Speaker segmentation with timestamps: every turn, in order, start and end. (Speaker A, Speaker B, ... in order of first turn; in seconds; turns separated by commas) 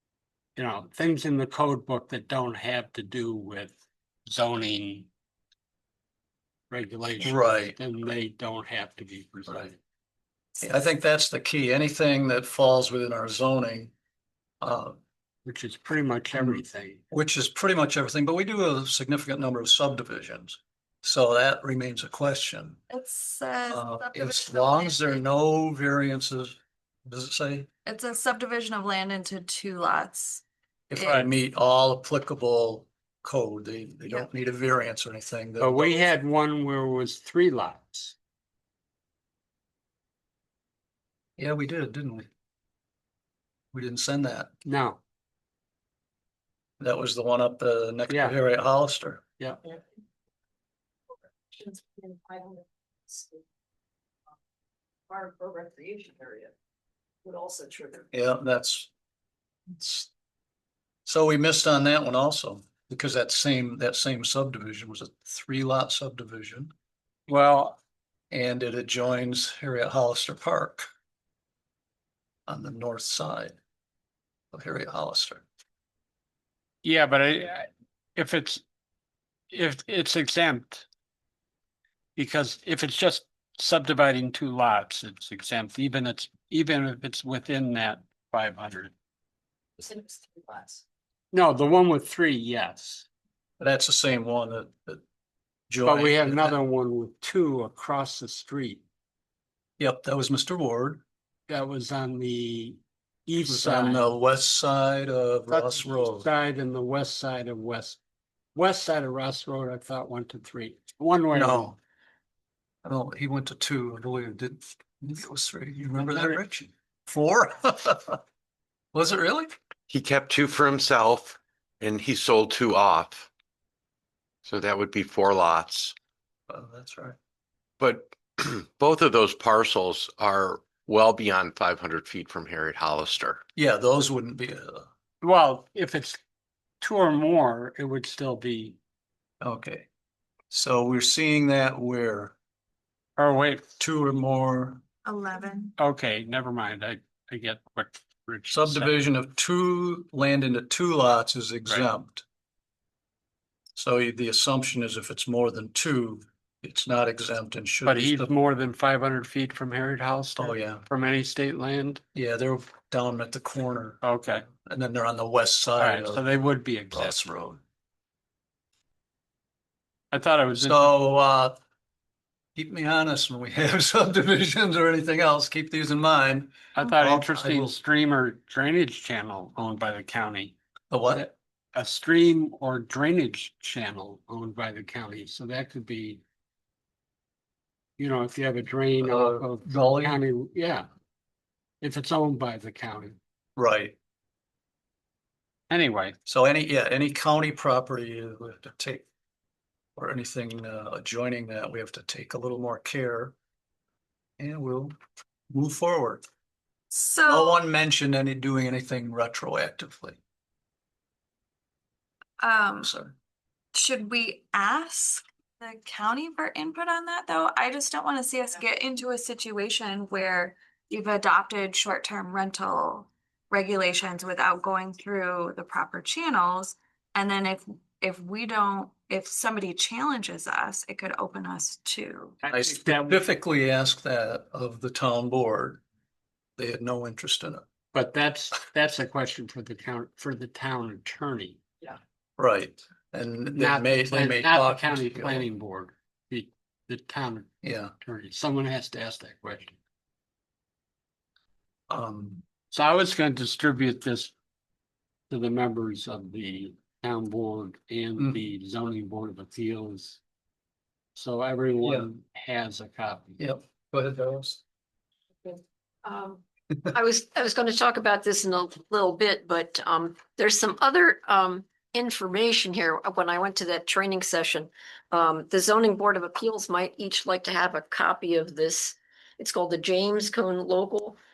Speaker A: 0.6-5.1, Speaker A: 6.7-9.8, Speaker B: 7.2-7.8, Speaker B: 10.6-13.9, Speaker B: 14.6-15.0, Speaker A: 15.4-17.0, Speaker B: 16.4-22.8, Speaker C: 22.9-25.2, Speaker B: 23.7-27.7, Speaker C: 27.9-30.4, Speaker B: 30.9-36.1, Speaker A: 35.6-38.1, Speaker B: 41.4-42.3, Speaker B: 43.7-44.5, Speaker A: 44.6-45.0, Speaker B: 46.8-49.2, Speaker A: 48.1-48.4, Speaker D: 51.5-53.4, Speaker D: 55.1-56.5, Speaker D: 57.2-58.1, Speaker B: 58.1-58.9, Speaker B: 59.7-60.1, Speaker B: 61.0-66.7, Speaker A: 67.3-67.8, Speaker B: 68.3-70.8, Speaker B: 72.5-73.6, Speaker B: 74.5-75.4, Speaker A: 76.8-78.6, Speaker A: 79.5-80.8, Speaker A: 82.2-88.9, Speaker D: 89.8-90.8, Speaker A: 91.3-93.0, Speaker B: 93.6-95.0, Speaker B: 95.7-96.5, Speaker A: 95.8-98.8, Speaker B: 99.8-101.0, Speaker A: 101.5-104.1, Speaker B: 103.4-106.2, Speaker A: 105.5-108.0, Speaker A: 108.5-111.7, Speaker B: 111.3-111.8, Speaker B: 112.8-118.2, Speaker A: 116.0-116.4, Speaker B: 118.9-119.5, Speaker E: 119.9-123.3, Speaker E: 124.4-125.9, Speaker B: 126.5-127.2, Speaker E: 127.8-133.4, Speaker B: 133.6-134.9, Speaker A: 135.2-136.2, Speaker A: 136.8-138.8, Speaker B: 139.4-139.9, Speaker B: 140.5-142.3, Speaker A: 143.2-143.7, Speaker B: 143.8-144.8, Speaker C: 145.0-145.8, Speaker A: 145.8-148.9, Speaker B: 148.5-152.2, Speaker B: 153.8-158.3, Speaker A: 157.8-162.0, Speaker B: 160.4-160.8, Speaker B: 162.1-164.0, Speaker A: 164.0-164.4, Speaker B: 164.6-166.2, Speaker A: 165.8-167.2, Speaker B: 166.9-167.6, Speaker A: 170.1-170.9, Speaker B: 170.6-171.6, Speaker B: 172.6-177.8, Speaker A: 176.8-180.5, Speaker B: 180.9-181.3, Speaker A: 181.7-186.2, Speaker A: 188.0-190.9, Speaker B: 189.0-190.2, Speaker A: 191.8-193.2, Speaker B: 193.6-193.9, Speaker A: 195.7-196.1, Speaker B: 196.2-199.0, Speaker B: 199.9-203.3, Speaker B: 204.4-204.9, Speaker B: 205.5-206.2, Speaker C: 206.9-207.6, Speaker B: 207.3-210.2, Speaker C: 212.4-212.9, Speaker B: 212.8-213.1, Speaker C: 213.7-232.3, Speaker A: 232.4-233.2, Speaker B: 232.5-235.8, Speaker B: 236.6-237.6, Speaker A: 237.9-241.6, Speaker B: 242.4-245.5, Speaker A: 243.6-249.8, Speaker B: 247.6-247.9, Speaker B: 251.9-252.4, Speaker A: 252.7-254.3, Speaker A: 255.3-260.2, Speaker A: 261.1-263.4, Speaker B: 263.4-264.6, Speaker D: 265.4-281.2